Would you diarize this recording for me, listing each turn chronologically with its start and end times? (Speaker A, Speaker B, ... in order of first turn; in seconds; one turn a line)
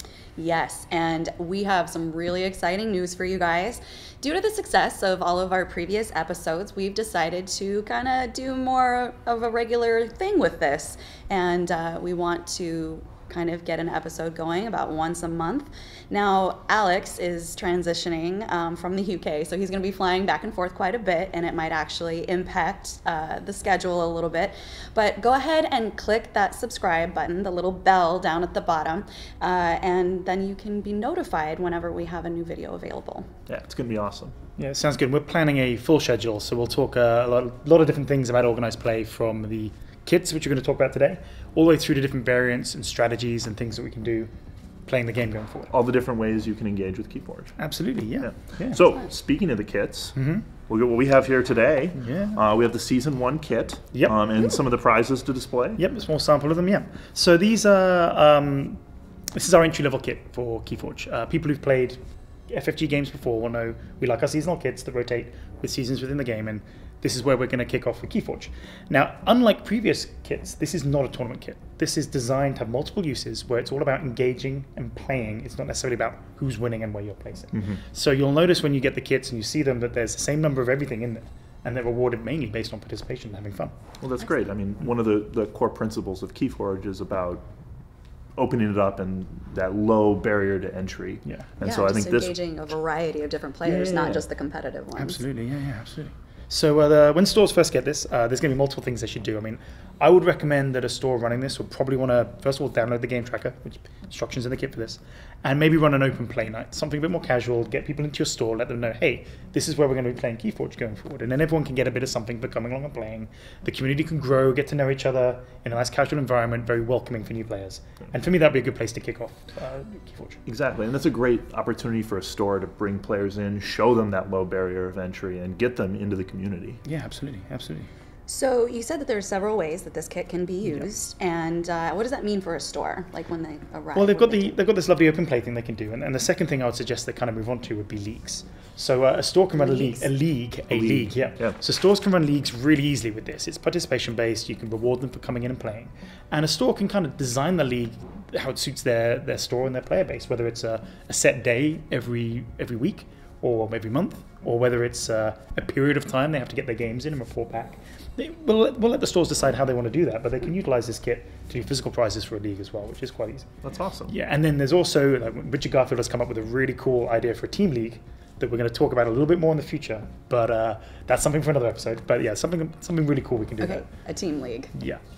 Speaker A: 0.4-33.3
Speaker B: 33.5-34.3
Speaker C: 34.6-44.3
Speaker C: 44.9-45.7
Speaker B: 45.7-47.6
Speaker C: 47.6-48.9
Speaker B: 48.2-55.8
Speaker C: 50.1-50.5
Speaker C: 52.0-52.4
Speaker C: 53.9-54.2
Speaker C: 55.8-58.8
Speaker C: 59.3-62.0
Speaker C: 62.5-83.7
Speaker B: 77.5-77.8
Speaker B: 84.0-87.5
Speaker B: 88.3-92.3
Speaker C: 91.2-91.5
Speaker A: 91.6-95.2
Speaker C: 93.6-94.2
Speaker C: 95.0-120.4
Speaker B: 120.5-126.8
Speaker C: 126.8-127.9
Speaker A: 128.3-134.5
Speaker C: 133.9-163.5
Speaker A: 139.6-140.0
Speaker B: 140.7-141.5
Speaker B: 163.6-164.1
Speaker C: 164.1-173.9
Speaker A: 173.6-174.7
Speaker C: 174.7-175.0